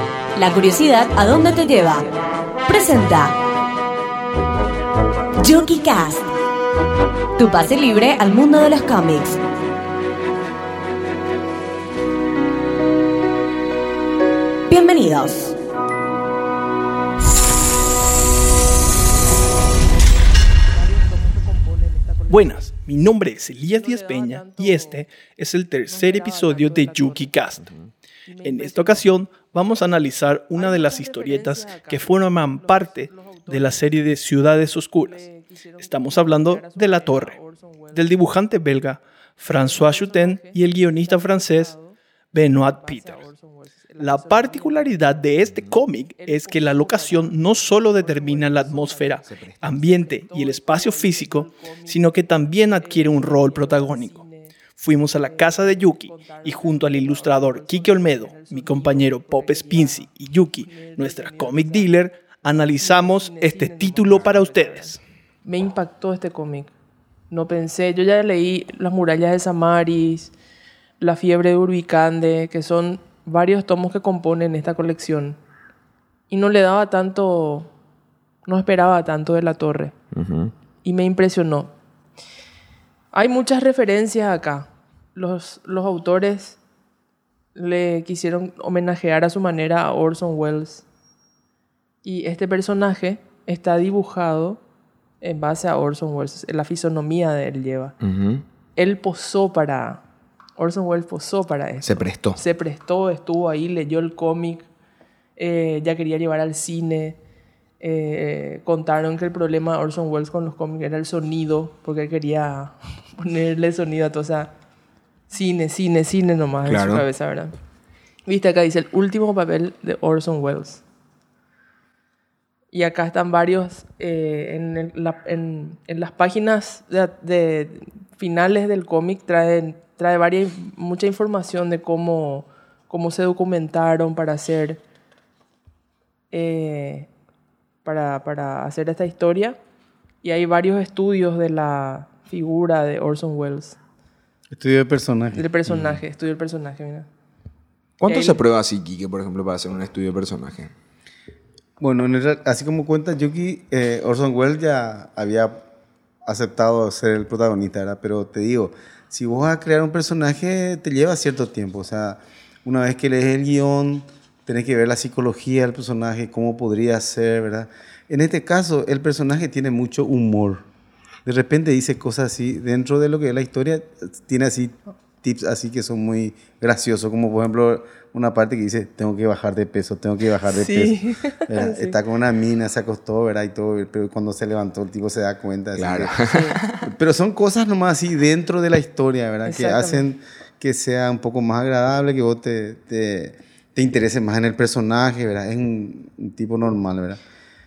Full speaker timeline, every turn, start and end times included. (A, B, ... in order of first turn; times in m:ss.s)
0:00.4-0:02.0 A
0:02.7-0:03.3 A
0:05.4-0:06.2 A
0:07.4-0:09.4 A
0:14.7-0:15.5 A
0:20.7-0:22.7 B
0:22.3-0:27.7 C
0:23.7-0:25.0 B
0:25.8-0:27.5 B
0:28.2-0:29.2 B
0:28.4-0:35.3 C
0:30.5-0:34.0 B
0:35.0-0:38.2 B
0:35.8-0:37.4 C
0:37.9-0:41.7 C
0:39.5-0:42.0 B
0:42.3-0:43.3 C
0:42.5-0:45.3 B
0:44.0-1:05.0 C
0:45.4-0:45.8 D
0:46.2-1:01.9 B
0:49.2-0:49.7 D
1:02.5-1:06.7 B
1:07.3-1:10.3 B
1:11.0-1:15.4 B
1:16.3-1:17.7 B
1:18.4-1:19.9 B
1:20.1-1:20.5 D
1:20.8-1:21.7 B
1:23.1-1:26.6 B
1:27.5-1:30.8 B
1:32.0-1:34.6 B
1:35.2-1:37.9 B
1:38.0-1:38.4 D
1:38.8-1:40.0 B
1:40.6-1:44.6 B
1:41.8-1:42.4 D
1:45.4-1:47.2 B
1:47.8-1:54.5 B
1:55.3-1:57.5 B
1:56.6-1:57.0 D
1:58.2-2:00.8 B
2:02.7-2:14.8 B
2:16.3-2:17.1 B
2:17.8-2:19.6 B
2:20.2-2:23.8 B
2:24.5-2:25.4 E
2:25.3-2:27.1 B
2:25.7-2:26.0 D
2:28.0-2:30.7 D
2:28.0-2:28.4 B
2:31.8-2:35.6 E
2:36.2-2:50.6 E
2:51.2-3:06.2 E
3:00.5-3:02.0 B
3:05.7-3:06.9 D
3:06.3-3:06.6 B
3:06.7-3:17.2 E
3:09.4-3:10.1 B